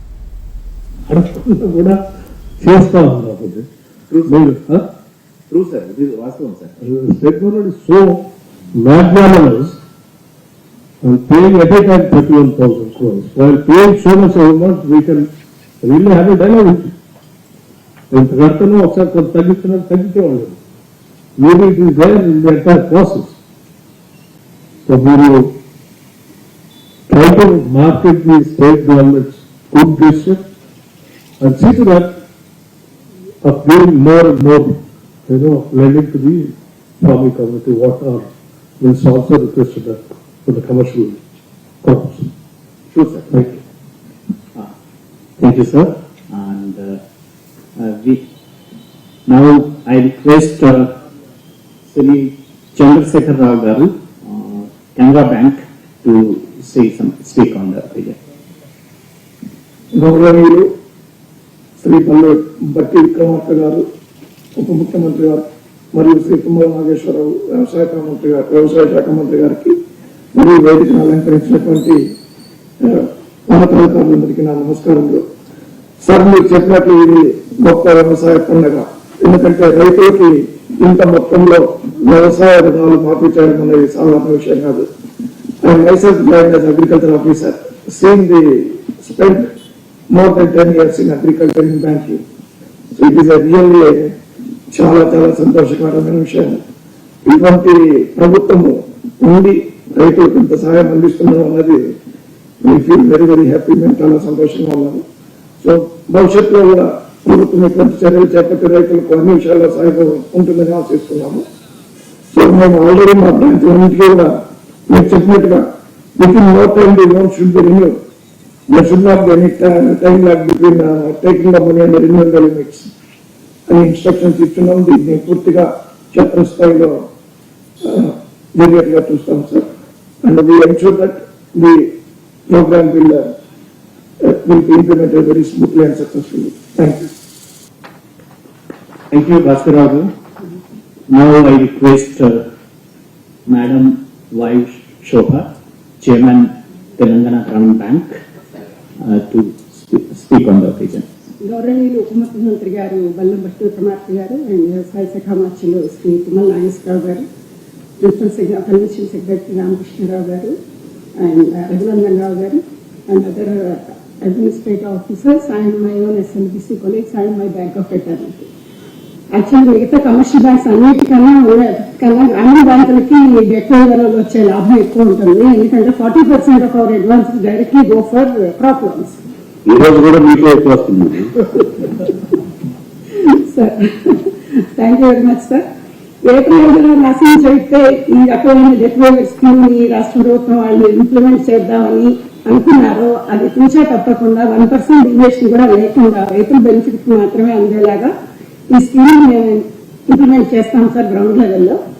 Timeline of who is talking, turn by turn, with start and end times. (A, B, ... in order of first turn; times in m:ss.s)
0:01.1-0:02.0 A
0:02.6-0:03.7 A
0:04.1-0:04.6 B
0:04.2-0:04.8 A
0:05.5-0:06.8 B
0:06.8-0:09.8 A
0:11.0-0:15.3 A
0:15.8-0:16.9 A
0:18.1-0:20.6 A
0:21.4-0:23.4 A
0:24.9-0:25.5 A
0:27.1-0:30.4 A
0:31.4-0:32.2 A
0:33.4-0:38.3 A
0:38.8-0:41.2 A
0:41.8-0:42.3 A
0:42.9-0:43.3 C
0:43.3-0:43.6 A
0:45.4-0:47.0 C
0:47.8-0:48.2 C
0:49.3-0:51.0 C
0:51.9-0:58.2 C
0:59.9-1:00.7 D
1:01.8-1:03.8 D
1:04.6-1:09.8 D
1:10.3-1:12.0 D
1:12.8-1:15.2 D
1:16.0-1:24.8 D
1:25.6-1:29.5 D
1:30.1-1:32.2 D
1:32.9-1:34.1 D
1:34.7-1:36.6 D
1:37.2-1:41.9 D
1:42.6-1:45.0 D
1:45.6-1:51.4 D
1:52.3-1:54.3 D
1:54.9-1:55.6 D
1:56.2-1:58.0 D
1:58.7-2:02.9 D
2:03.7-2:07.0 D
2:07.8-2:09.7 D
2:10.2-2:11.9 D
2:12.5-2:13.3 D
2:14.2-2:17.1 D
2:19.1-2:20.1 C
2:21.1-2:22.5 C
2:23.5-2:25.5 C
2:26.0-2:28.2 C
2:29.0-2:31.1 C
2:31.4-2:37.2 E
2:38.0-2:40.5 E
2:41.2-2:48.5 E
2:49.3-2:59.2 E
2:59.7-3:01.3 B
3:03.1-3:05.6 E
3:06.2-3:18.1 E
3:18.7-3:21.8 E